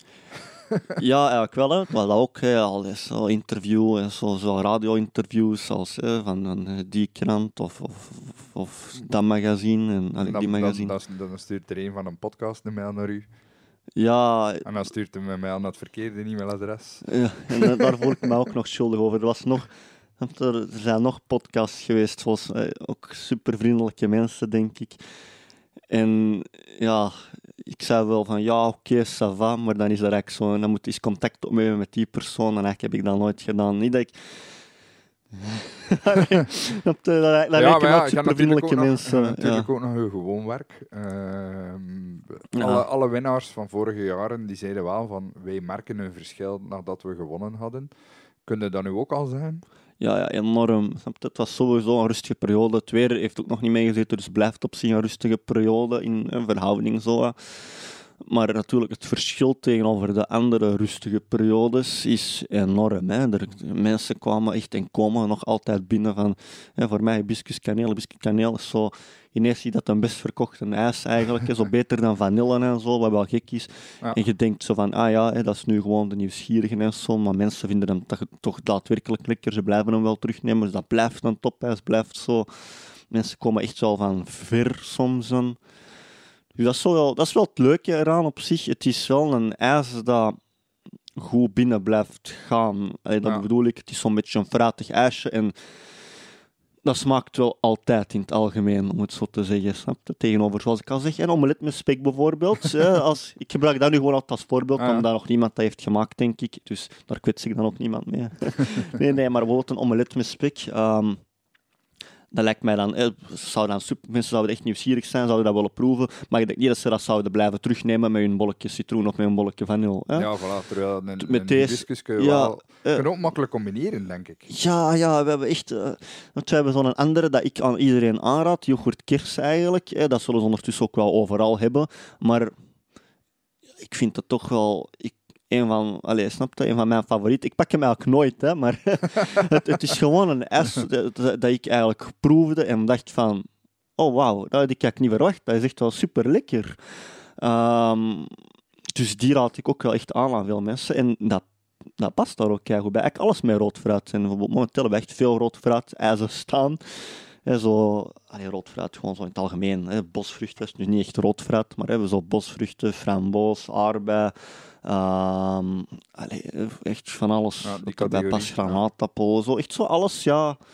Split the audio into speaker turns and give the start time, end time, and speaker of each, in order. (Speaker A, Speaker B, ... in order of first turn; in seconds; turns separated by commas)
Speaker A: 0.7-1.0, Speaker B: 1.0-10.9, Speaker A: 10.2-13.3, Speaker B: 14.0-14.7, Speaker A: 14.7-18.1, Speaker B: 17.1-25.0, Speaker B: 25.9-34.2, Speaker B: 35.4-39.7, Speaker A: 37.5-47.9, Speaker B: 42.5-42.9, Speaker A: 48.5-49.6, Speaker B: 50.0-85.6, Speaker B: 86.6-90.4, Speaker B: 91.2-95.5, Speaker B: 96.8-111.2, Speaker A: 104.8-105.0, Speaker B: 112.3-120.3, Speaker A: 120.2-124.5, Speaker B: 121.2-123.1, Speaker B: 124.5-132.5, Speaker B: 133.8-146.8, Speaker B: 147.4-148.3, Speaker B: 148.9-151.4, Speaker B: 152.0-156.8, Speaker B: 157.4-170.6, Speaker A: 167.6-168.8